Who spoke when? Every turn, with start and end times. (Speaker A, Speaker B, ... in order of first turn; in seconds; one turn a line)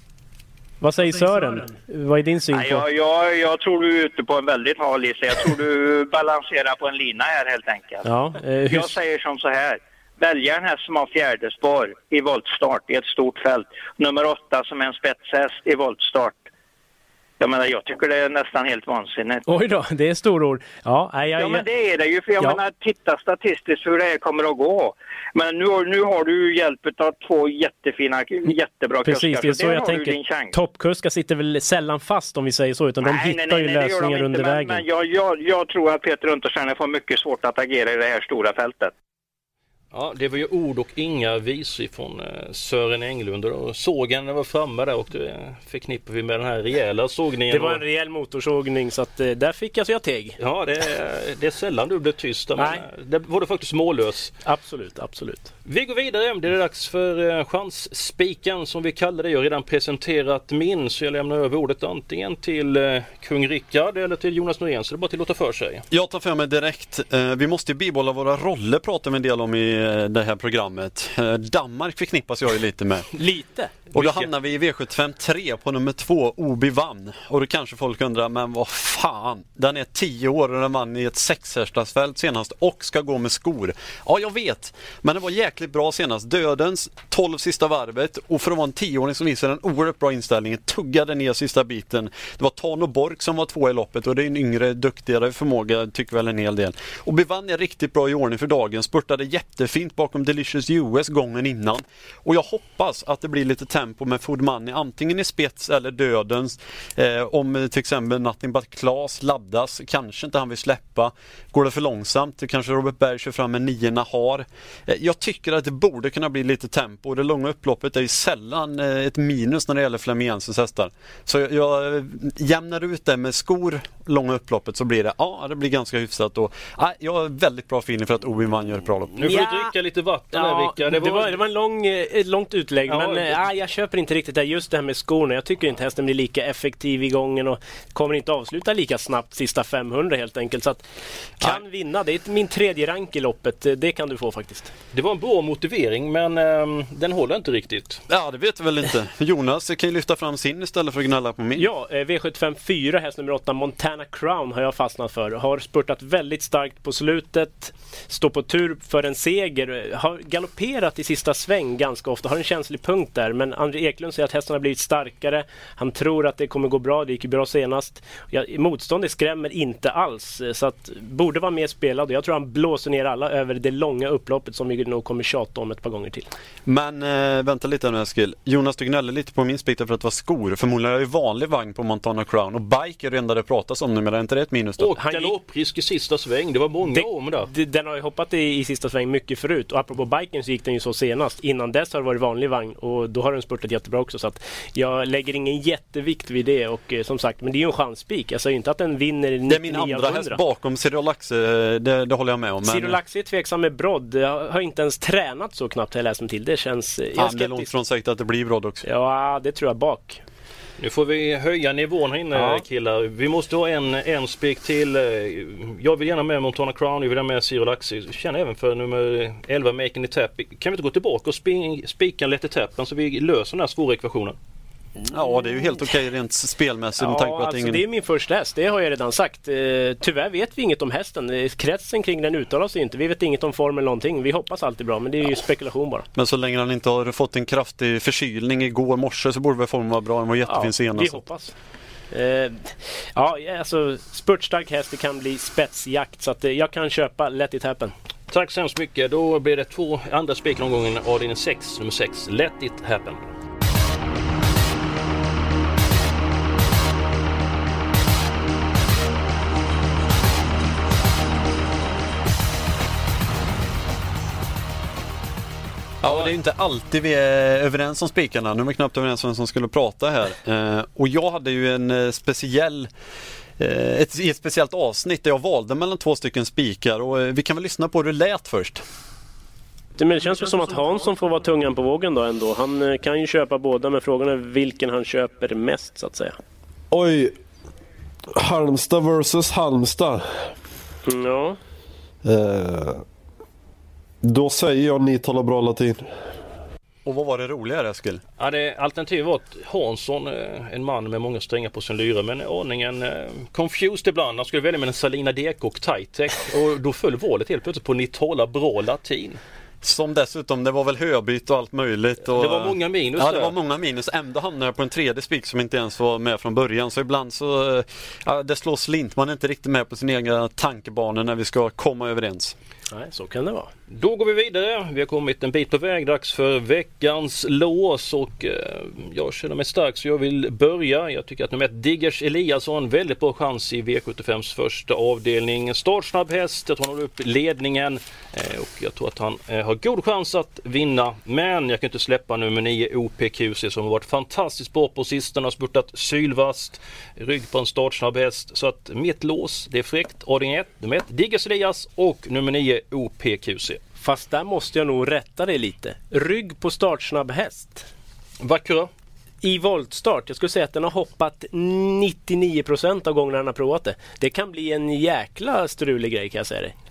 Speaker A: 0.8-2.9
Speaker B: 2.5-8.0
Speaker A: 8.0-9.0
Speaker B: 8.7-16.5
Speaker B: 17.4-19.5
Speaker A: 19.5-21.6
Speaker B: 21.4-30.5
Speaker A: 29.0-34.8
Speaker B: 33.0-38.9
Speaker C: 39.9-47.8
Speaker A: 47.5-50.4
Speaker C: 50.4-54.3
Speaker A: 52.6-52.8
Speaker A: 54.4-55.5
Speaker C: 55.6-65.8
Speaker D: 65.9-73.1
Speaker A: 73.1-73.7
Speaker C: 73.9-74.2
Speaker D: 73.9-129.3
Speaker C: 129.2-131.4
Speaker A: 129.2-129.7
Speaker A: 130.3-140.8
Speaker C: 132.9-133.4
Speaker A: 141.4-144.7
Speaker C: 144.9-148.0
Speaker D: 148.1-151.7
Speaker A: 151.6-176.3
Speaker D: 176.7-184.9
Speaker C: 184.8-187.5
Speaker A: 185.0-185.3
Speaker A: 186.9-200.4
Speaker D: 199.5-203.0
Speaker A: 202.6-207.7
Speaker D: 207.1-208.8
Speaker A: 208.8-210.2
Speaker C: 210.8-224.3
Speaker A: 212.3-212.6
Speaker D: 225.1-227.8
Speaker A: 227.0-236.1
Speaker D: 236.1-241.2
Speaker A: 240.4-241.6
Speaker A: 242.1-247.9
Speaker C: 248.3-253.3
Speaker D: 266.0-272.9
Speaker D: 273.6-278.8
Speaker A: 280.0-286.4
Speaker C: 280.2-281.1
Speaker E: 286.9-287.4
Speaker E: 288.3-290.6
Speaker A: 291.1-291.6
Speaker E: 292.2-293.0
Speaker E: 294.2-296.1
Speaker D: 297.0-298.2
Speaker C: 298.4-309.4
Speaker D: 309.8-322.5
Speaker C: 312.3-313.5
Speaker A: 322.9-323.7
Speaker C: 323.9-353.8
Speaker A: 354.0-357.9
Speaker C: 358.4-358.9
Speaker A: 359.4-366.7